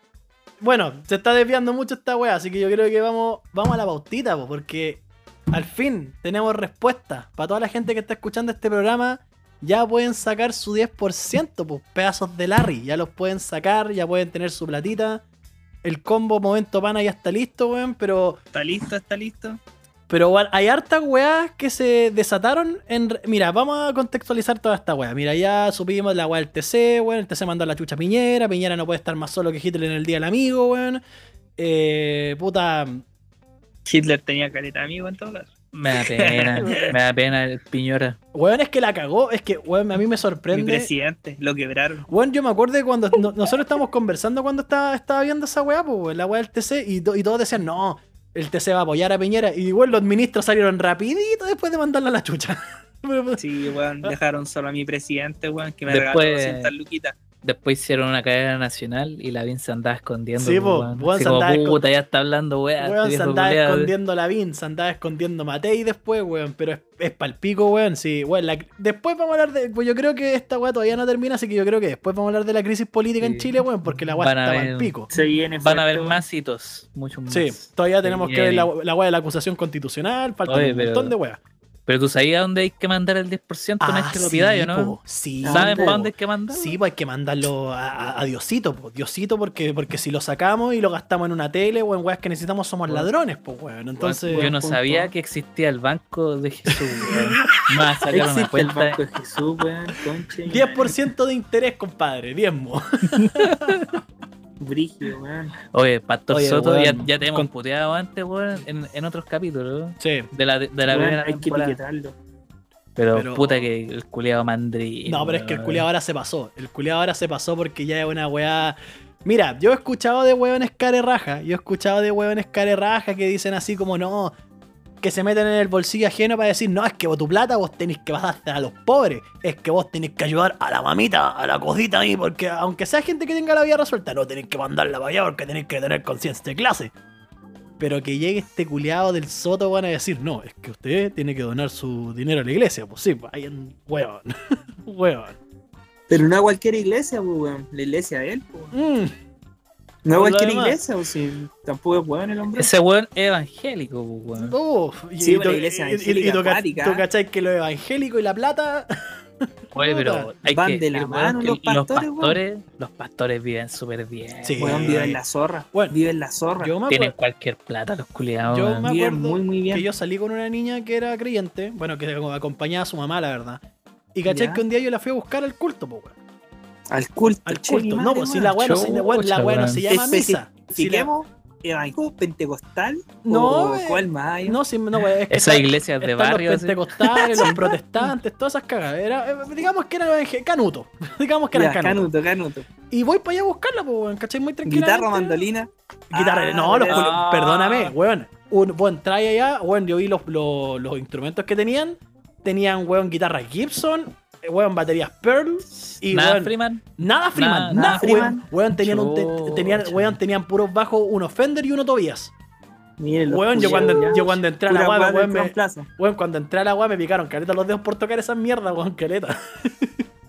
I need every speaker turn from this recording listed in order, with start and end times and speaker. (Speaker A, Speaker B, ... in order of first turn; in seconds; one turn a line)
Speaker A: 0.6-15.2
Speaker A: 15.8-18.4
Speaker B: 18.5-19.6
Speaker A: 20.1-31.0
Speaker A: 31.6-33.0
Speaker B: 33.9-36.9
Speaker C: 35.7-38.2
Speaker A: 36.6-36.9
Speaker A: 38.3-40.9
Speaker B: 40.5-42.1
Speaker A: 42.1-53.4
Speaker B: 53.4-57.2
Speaker C: 55.9-56.7
Speaker C: 57.4-63.9
Speaker A: 60.4-61.8
Speaker A: 62.8-75.1
Speaker C: 73.2-74.9
Speaker B: 75.1-76.2
Speaker C: 75.6-78.7
Speaker A: 77.3-81.4
Speaker C: 80.5-81.2
Speaker C: 81.9-86.8
Speaker A: 83.8-94.5
Speaker B: 85.4-86.0
Speaker C: 94.0-99.0
Speaker B: 94.3-95.1
Speaker A: 97.0-97.5
Speaker B: 98.1-100.9
Speaker A: 100.5-103.9
Speaker B: 104.6-105.5
Speaker C: 105.7-111.8
Speaker A: 106.3-107.5
Speaker A: 110.0-110.3
Speaker B: 110.9-112.2
Speaker C: 113.0-115.9
Speaker A: 113.1-113.7
Speaker A: 115.1-124.3
Speaker A: 125.0-136.9
Speaker A: 137.8-145.4
Speaker B: 146.1-148.8
Speaker A: 148.7-149.1
Speaker B: 150.1-152.7
Speaker A: 150.1-150.8
Speaker C: 152.6-154.6
Speaker A: 154.4-160.3
Speaker B: 155.2-157.1
Speaker C: 159.8-164.9
Speaker B: 160.4-162.4
Speaker A: 164.4-165.2
Speaker B: 164.6-166.8
Speaker A: 166.6-167.1
Speaker C: 166.9-168.9
Speaker A: 168.4-173.6
Speaker B: 168.9-169.9
Speaker A: 174.1-176.2
Speaker B: 174.3-174.6
Speaker B: 176.9-178.9
Speaker A: 177.4-181.1
Speaker C: 178.6-179.9
Speaker B: 179.9-184.6
Speaker A: 183.2-192.1
Speaker C: 185.3-186.8
Speaker B: 187.4-187.8
Speaker B: 191.5-192.7
Speaker A: 192.9-195.4
Speaker B: 194.7-197.2
Speaker A: 196.1-212.3
Speaker C: 196.9-197.9
Speaker C: 205.7-210.2
Speaker B: 207.8-208.4
Speaker B: 213.0-215.9
Speaker A: 213.3-220.1